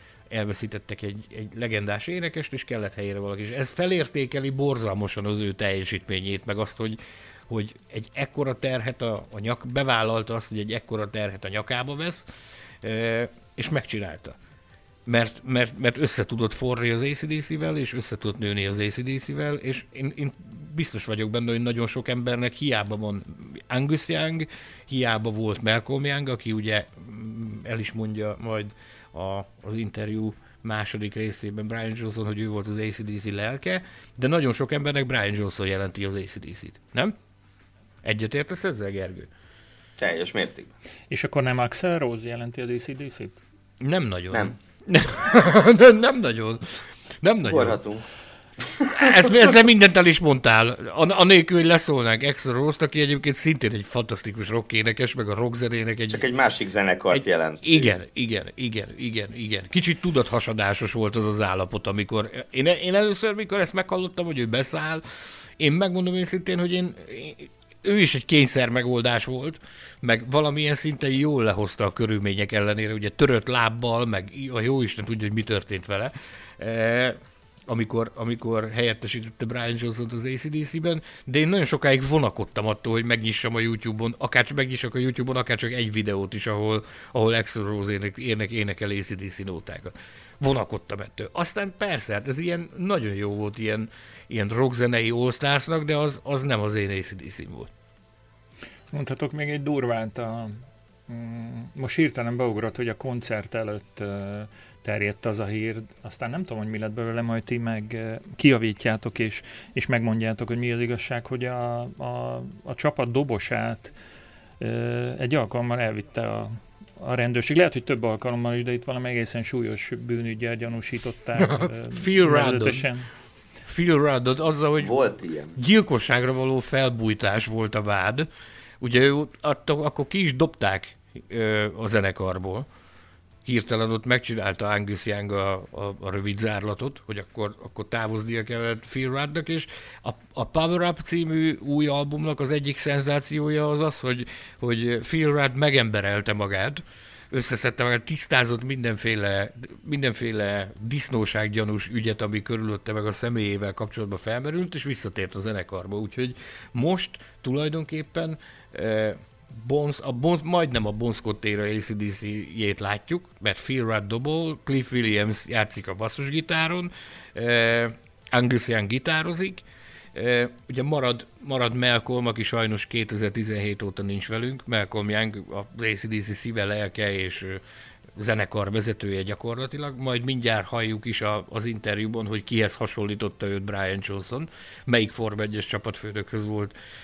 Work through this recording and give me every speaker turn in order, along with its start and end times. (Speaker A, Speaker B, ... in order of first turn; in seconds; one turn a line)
Speaker A: 0.3-7.0
Speaker A: 7.5-12.3
Speaker A: 12.8-14.4
Speaker A: 15.1-37.1
Speaker A: 38.0-39.3
Speaker B: 40.0-40.7
Speaker C: 41.1-43.4
Speaker A: 43.8-47.8
Speaker B: 47.4-48.0
Speaker A: 48.9-56.2
Speaker B: 49.0-49.3
Speaker B: 56.1-57.9
Speaker A: 57.1-65.0
Speaker A: 65.6-97.7
Speaker C: 98.9-113.9
Speaker C: 114.6-123.1
Speaker A: 121.4-122.9
Speaker A: 123.6-125.0
Speaker B: 124.8-125.6
Speaker A: 125.6-128.3
Speaker A: 128.8-132.7
Speaker A: 133.4-169.6
Speaker A: 170.1-177.6
Speaker A: 178.2-186.7